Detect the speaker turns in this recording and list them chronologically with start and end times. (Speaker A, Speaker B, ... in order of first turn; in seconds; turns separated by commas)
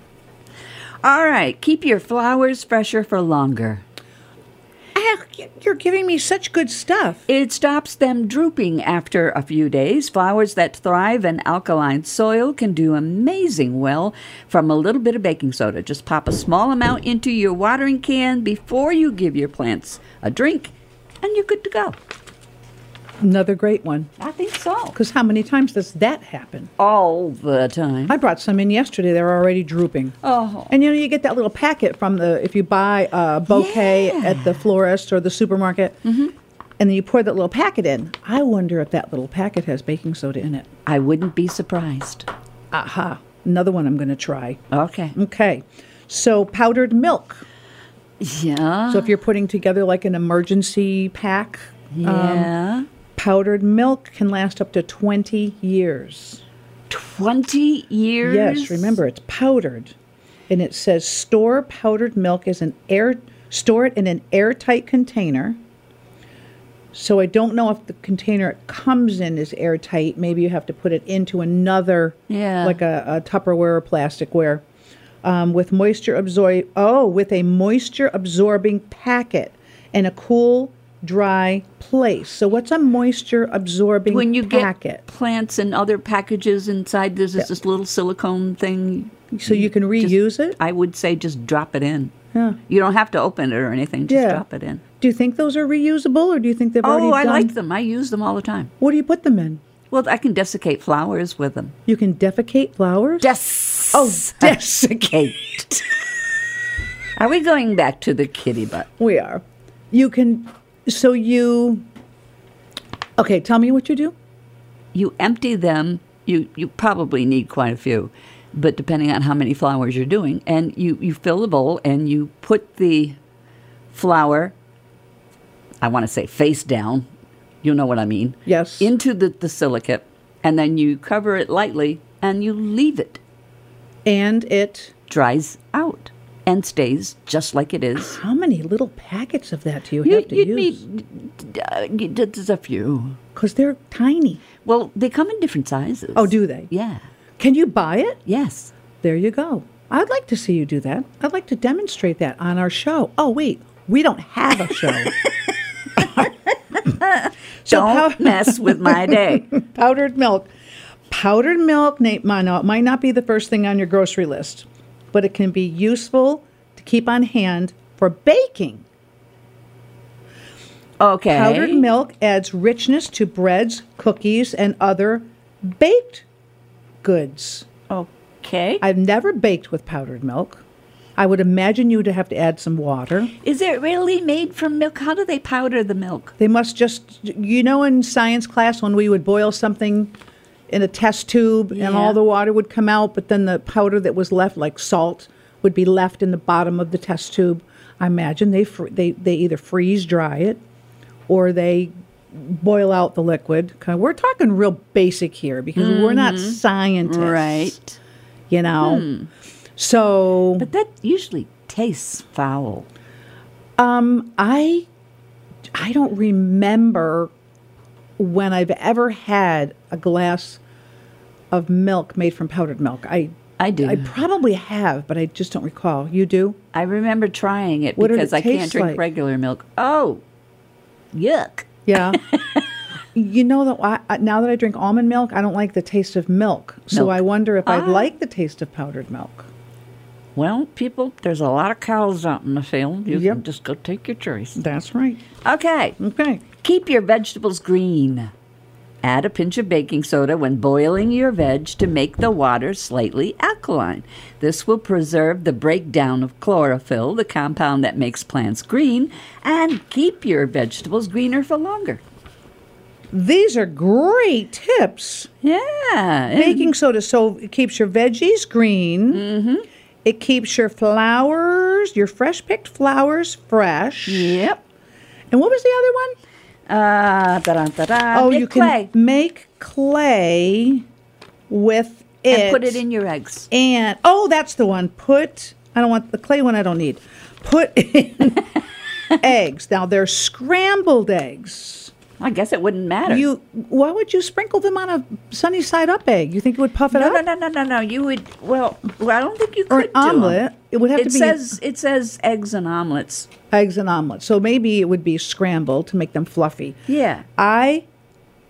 Speaker A: 1.0-3.8, Speaker B: 5.0-7.3, Speaker A: 7.3-22.0, Speaker B: 23.2-24.1, Speaker A: 24.2-25.0, Speaker B: 24.9-26.7, Speaker A: 26.8-28.2, Speaker B: 28.1-30.2, Speaker A: 30.2-30.7, Speaker B: 30.7-36.0, Speaker A: 33.5-34.6, Speaker A: 36.0-36.3, Speaker B: 36.8-40.7, Speaker A: 40.9-42.3, Speaker B: 42.7-44.6, Speaker A: 44.7-45.2, Speaker B: 45.1-47.4, Speaker A: 48.2-49.1, Speaker B: 48.9-52.5, Speaker A: 51.9-52.9, Speaker B: 53.2-56.4, Speaker A: 56.9-59.0, Speaker B: 58.2-60.0, Speaker B: 60.5-65.6, Speaker B: 66.9-74.6, Speaker A: 72.3-72.8, Speaker B: 75.2-85.0, Speaker A: 84.1-92.1, Speaker B: 89.3-90.6, Speaker B: 92.3-92.6, Speaker A: 92.7-94.8, Speaker B: 94.1-94.4, Speaker B: 95.0-97.5, Speaker A: 96.8-98.7, Speaker B: 98.8-99.6, Speaker A: 99.9-101.8, Speaker B: 101.9-103.3, Speaker A: 103.2-105.9, Speaker B: 103.9-105.3, Speaker A: 107.2-108.9, Speaker B: 109.0-111.8, Speaker B: 113.2-114.2, Speaker A: 114.9-123.2, Speaker A: 123.9-124.5, Speaker A: 125.8-127.1, Speaker A: 127.6-133.2, Speaker B: 128.5-128.9, Speaker B: 134.1-134.9, Speaker A: 135.1-138.2, Speaker B: 138.0-140.8, Speaker A: 140.0-143.2, Speaker B: 143.3-144.4, Speaker A: 144.6-147.0, Speaker B: 146.2-146.7, Speaker B: 147.4-148.2, Speaker A: 148.3-148.7, Speaker B: 149.0-155.1, Speaker A: 156.0-159.5, Speaker B: 156.0-156.3, Speaker B: 157.7-160.5, Speaker B: 161.1-168.8, Speaker A: 171.0-171.9, Speaker B: 171.3-176.3, Speaker B: 177.0-177.7, Speaker A: 177.9-178.8, Speaker B: 178.8-180.6, Speaker B: 181.2-183.3, Speaker A: 183.4-186.3, Speaker B: 186.4-190.2, Speaker B: 190.7-200.6, Speaker A: 191.7-192.2, Speaker B: 201.3-207.8, Speaker A: 205.8-208.0, Speaker B: 208.5-209.1, Speaker A: 208.8-209.3, Speaker B: 209.8-210.7, Speaker A: 210.6-212.9, Speaker B: 213.8-214.9, Speaker B: 215.7-217.3, Speaker B: 218.2-220.6, Speaker B: 221.5-226.6, Speaker A: 223.6-224.1, Speaker A: 226.7-230.2, Speaker B: 228.0-229.0, Speaker A: 231.1-232.7, Speaker B: 231.9-232.2, Speaker B: 233.2-239.5, Speaker A: 236.9-238.1, Speaker A: 240.4-244.6, Speaker B: 243.1-243.4, Speaker B: 244.6-245.2, Speaker A: 245.4-246.0, Speaker B: 246.0-246.4, Speaker A: 246.6-248.3, Speaker A: 249.0-262.0, Speaker B: 263.1-265.3, Speaker A: 265.4-266.7, Speaker B: 266.4-269.2, Speaker A: 269.1-269.7, Speaker B: 270.0-274.4, Speaker A: 274.1-274.6, Speaker B: 275.3-276.1, Speaker A: 276.7-278.9, Speaker B: 278.1-280.9, Speaker B: 281.5-282.8, Speaker A: 282.3-283.5, Speaker B: 283.5-288.5, Speaker B: 289.2-291.9, Speaker A: 292.2-293.3, Speaker B: 293.1-297.2, Speaker A: 296.9-300.4, Speaker B: 299.7-301.5, Speaker A: 301.0-303.3, Speaker B: 303.5-306.8, Speaker A: 306.9-307.2, Speaker B: 307.4-307.9